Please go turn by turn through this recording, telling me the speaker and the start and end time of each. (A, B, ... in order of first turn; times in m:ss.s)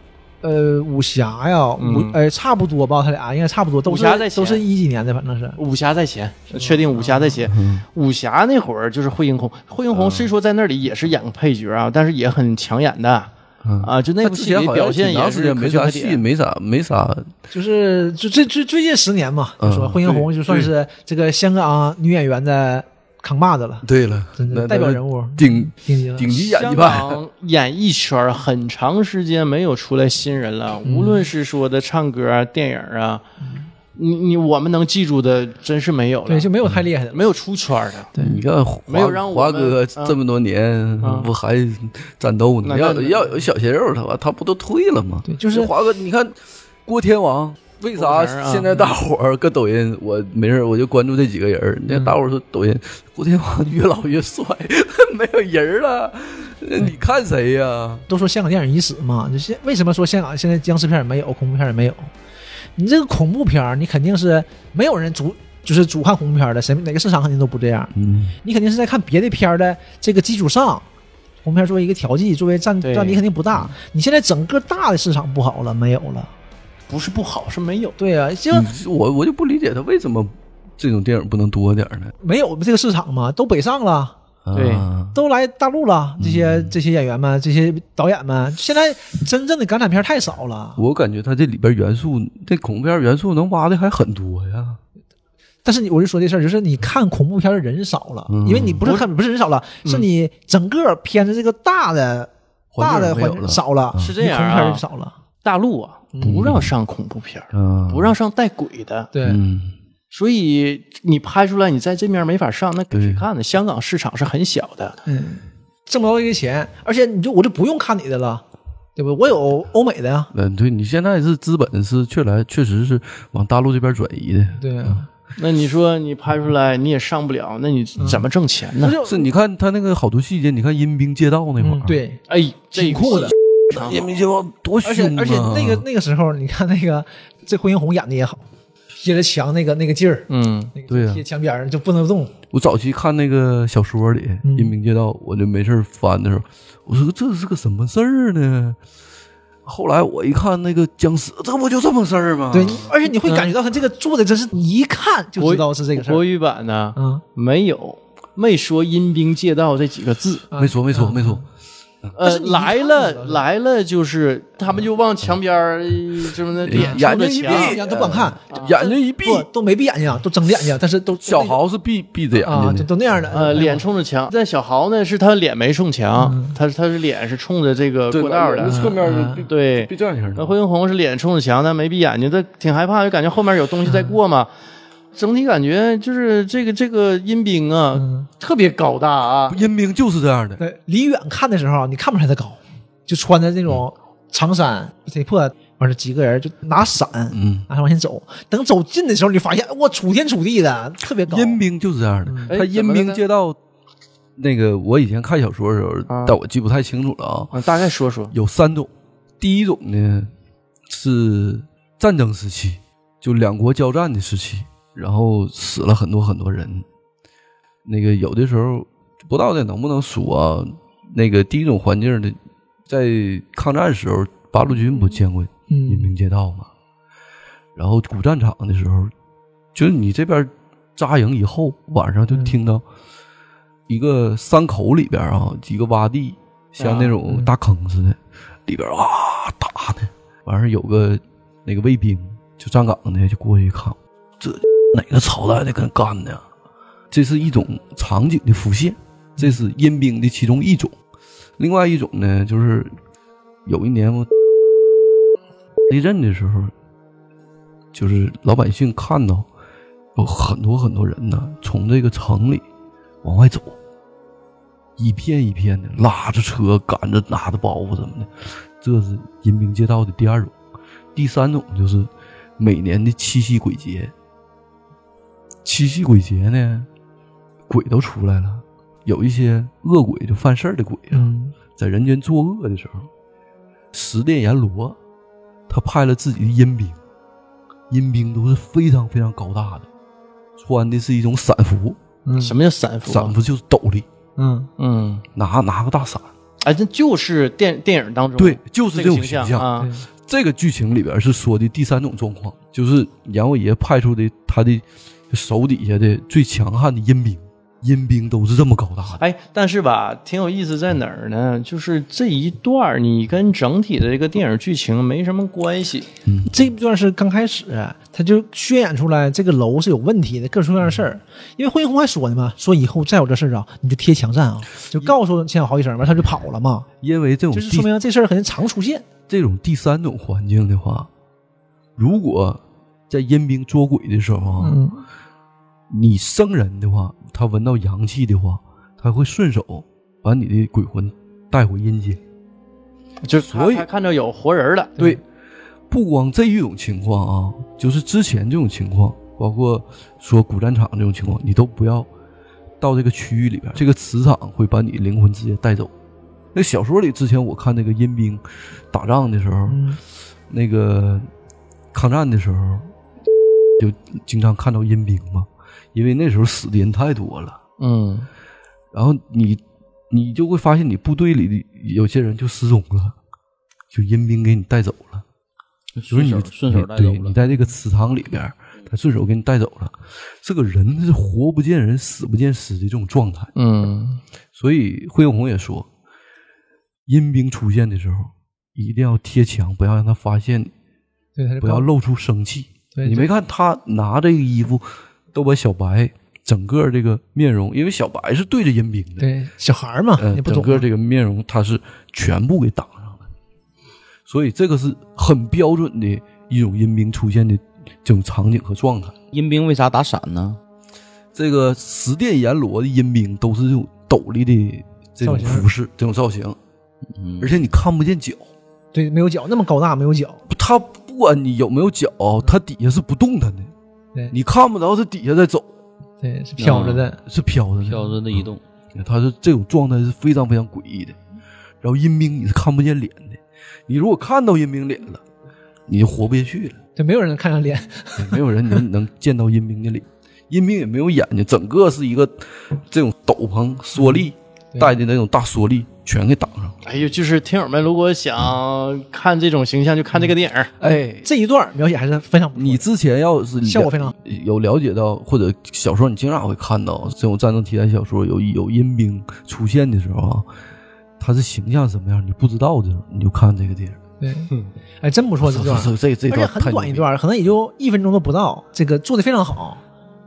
0:00.4-0:05.6 A
0:01.8-0:02.2 B
0:03.8-0:04.6 B
0:05.6-0:16.2 B
0:06.5-0:07.4 A
0:07.5-0:07.8 C
0:09.9-0:10.3 C
0:13.6-0:17.3 C
0:17.5-0:23.8 A
0:19.6-0:20.7 C
0:23.8-0:27.2 C
0:24.4-0:26.6 A
0:26.4-0:33.2 B
0:30.8-0:31.3 A
0:33.9-0:36.5 B
0:36.3-0:37.3 A
0:37.1-0:38.1 B
0:38.2-0:58.0 C
0:38.9-0:40.2 B
0:41.0-0:41.3 B
0:42.6-0:43.3 B
0:45.2-0:45.7 A
0:48.0-0:48.9 B
0:51.9-0:52.1 A
0:58.1-1:02.1 A
1:02.8-1:10.8 A
1:07.9-1:08.3 C
1:11.4-1:16.3 A
1:12.8-1:13.2 B
1:16.9-1:18.0 B
1:18.0-1:18.7 A
1:18.5-1:22.1 C
1:22.2-1:24.1 A
1:24.4-1:25.2 C
1:24.5-1:24.9 B
1:25.1-1:30.8 A
1:26.2-1:26.7 C
1:30.8-1:34.8 C
1:35.6-1:45.1 A
1:38.3-1:38.9 C
1:42.7-1:44.1 C
1:44.0-1:44.8 B
1:45.4-1:49.1 B
1:46.2-1:46.7 C
1:47.5-1:48.1 C
1:49.1-1:49.4 A
1:49.2-1:49.7 C
1:50.1-1:55.0 B
1:52.9-1:53.2 C
1:55.0-1:58.4 A
1:59.0-2:00.3 A
2:00.3-2:05.0 C
2:04.6-2:05.1 A
2:05.4-2:08.9 B
2:08.8-2:09.3 A
2:09.0-2:12.0 C
2:11.6-2:12.2 A
2:12.3-2:14.0 B
2:12.7-2:13.3 A
2:13.7-2:15.8 C
2:14.8-2:18.4 A
2:19.0-2:22.3 A
2:20.3-2:20.7 B
2:20.9-2:21.2 C
2:22.5-2:28.8 C
2:24.4-2:24.7 A
2:29.6-2:32.9 C
2:32.5-2:36.2 A
2:33.2-2:33.5 B
2:35.4-2:40.5 B
2:37.0-2:37.2 A
2:40.5-2:41.4 A
2:40.6-2:41.4 C
2:42.2-2:47.8 B
2:42.2-2:43.4 A
2:46.6-2:49.5 C
2:46.7-2:51.6 A
2:48.5-2:48.8 B
2:51.2-2:52.9 C
2:52.4-2:53.8 A
2:53.3-3:04.5 B
2:56.2-2:56.5 A
2:58.1-3:00.5 C
2:58.6-2:59.4 A
3:03.8-3:04.2 A
3:05.1-3:09.6 B
3:07.9-3:08.3 A
3:09.5-3:10.6 C
3:10.6-3:21.6 A
3:17.3-3:17.6 C
3:21.2-3:23.6 C
3:22.2-3:22.6 A
3:22.5-3:23.2 B
3:24.4-3:27.6 C
3:26.1-3:26.4 B
3:27.5-3:28.3 B
3:28.3-3:30.3 C
3:30.9-3:36.8 C
3:37.8-3:42.4 C
3:42.9-3:46.7 C
3:45.7-3:46.1 A
3:47.8-3:49.1 C
3:49.7-3:52.8 C
3:52.3-3:52.6 A
3:53.9-4:06.4 C
3:56.8-3:57.2 B
4:07.1-4:11.0 C
4:11.6-4:12.9 C
4:13.6-4:14.3 C
4:15.9-4:16.7 C
4:17.9-4:19.5 C
4:20.2-4:22.6 C
4:23.2-4:23.8 C
4:25.0-4:30.5 C
4:31.1-4:34.1 C
4:35.6-4:36.9 C
4:37.7-4:43.1 C
4:41.1-4:41.5 A
4:43.9-4:45.0 C
4:45.7-4:47.0 C
4:47.9-4:49.9 C
4:50.6-4:52.0 C
4:52.2-4:52.5 A
4:52.4-4:53.4 B
4:53.0-4:54.1 C
4:54.4-4:54.7 A
4:54.8-4:55.2 B
4:55.4-4:56.3 C
4:56.6-4:59.9 B
4:58.4-5:09.2 C
4:59.8-5:00.0 A
5:09.2-5:16.1 B
5:16.2-5:16.6 C
5:16.5-5:26.9 A
5:27.0-5:27.9 C
5:27.5-5:29.0 A
5:29.3-5:31.1 C
5:32.0-5:34.8 C
5:34.6-5:35.0 A
5:35.9-5:42.2 C
5:43.2-5:45.0 B
5:43.4-5:43.8 C
5:45.9-5:52.1 C
5:52.8-5:55.9 C
5:56.5-5:59.8 C
5:59.7-6:00.0 A
6:00.5-6:01.3 C
6:01.9-6:02.9 C
6:03.8-6:07.6 C
6:07.8-6:08.3 B
6:08.9-6:13.2 C
6:13.9-6:15.2 C
6:16.0-6:17.4 D
6:16.1-6:23.5 C
6:23.5-6:24.2 B
6:24.6-6:25.9 C
6:27.1-6:30.7 C
6:31.4-6:31.9 A
6:31.6-6:39.3 C
6:32.9-6:33.3 A
6:39.2-6:40.8 A
6:40.2-6:43.3 C
6:44.3-6:49.1 C
6:49.3-6:50.6 D
6:51.3-6:56.6 C
6:55.2-6:55.7 A
6:57.2-6:57.5 D
6:57.4-6:58.5 C
6:58.9-7:00.4 A
7:00.5-7:03.7 C
7:04.3-7:05.7 C
7:06.2-7:07.2 A
7:06.6-7:07.0 D
7:06.7-7:11.2 C
7:07.8-7:08.6 D
7:11.8-7:15.2 C
7:15.9-7:16.8 C
7:17.0-7:18.4 A
7:18.2-7:26.8 C
7:24.0-7:24.9 A
7:26.8-7:30.7 B
7:30.8-7:31.3 C
7:31.2-7:32.8 A
7:32.6-7:40.5 C
7:33.6-7:34.1 A
7:41.2-7:44.0 C
7:44.2-7:44.5 A
7:45.0-7:49.8 A
7:45.4-7:47.0 C